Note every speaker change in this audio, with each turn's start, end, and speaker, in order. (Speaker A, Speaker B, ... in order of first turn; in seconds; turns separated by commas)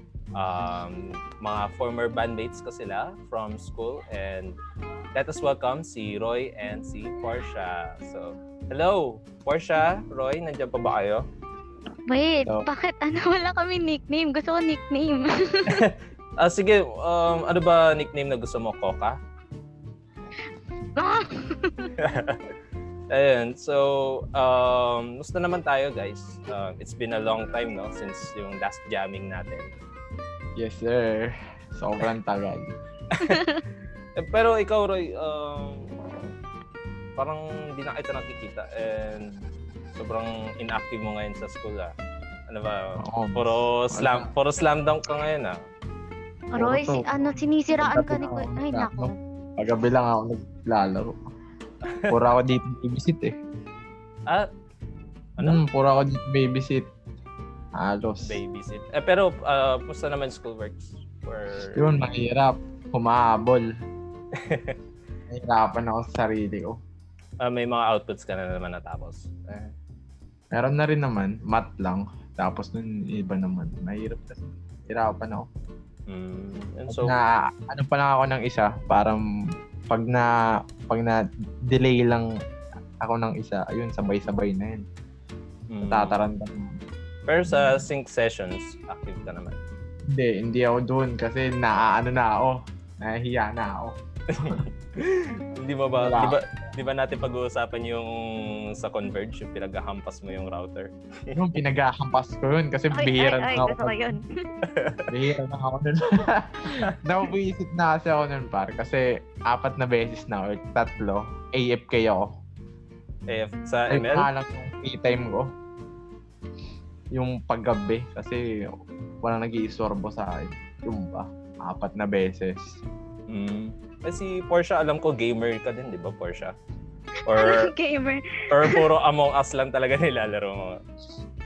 Speaker A: 0.3-4.6, Speaker A: 5.1-11.2, Speaker B: 12.1-15.8, Speaker A: 15.7-19.2, Speaker B: 21.0-21.9, Speaker A: 22.0-22.4, Speaker A: 23.1-29.7, Speaker C: 30.6-32.7, Speaker A: 33.1-33.4, Speaker B: 33.3-33.6, Speaker A: 34.2-35.9, Speaker A: 37.2-39.2, Speaker A: 39.9-41.9, Speaker A: 42.5-45.5, Speaker C: 43.0-44.3, Speaker B: 46.5-49.1, Speaker C: 46.6-47.0, Speaker C: 47.7-51.1, Speaker A: 51.8-52.2, Speaker C: 52.1-53.3, Speaker A: 55.4-55.6, Speaker C: 55.4-56.9, Speaker C: 57.8-58.4, Speaker A: 58.2-62.2, Speaker C: 61.7-63.7, Speaker A: 64.3-64.8, Speaker C: 65.3-66.8, Speaker A: 67.4-69.7, Speaker C: 70.5-75.5, Speaker A: 76.1-77.2, Speaker C: 76.9-79.2, Speaker C: 79.9-80.3, Speaker C: 80.8-82.2, Speaker C: 83.0-84.8, Speaker A: 85.7-86.2, Speaker C: 85.8-86.7, Speaker A: 87.3-89.6, Speaker C: 87.5-87.8, Speaker C: 90.1-94.6, Speaker A: 94.3-101.3, Speaker C: 96.0-96.4, Speaker C: 101.3-104.0, Speaker B: 102.9-104.3, Speaker A: 104.6-105.1, Speaker C: 105.1-112.2, Speaker A: 113.3-114.3, Speaker C: 113.9-115.5, Speaker C: 117.1-118.4, Speaker C: 119.2-122.8, Speaker A: 123.3-126.5, Speaker A: 127.3-127.7, Speaker B: 127.3-128.8, Speaker A: 128.5-130.8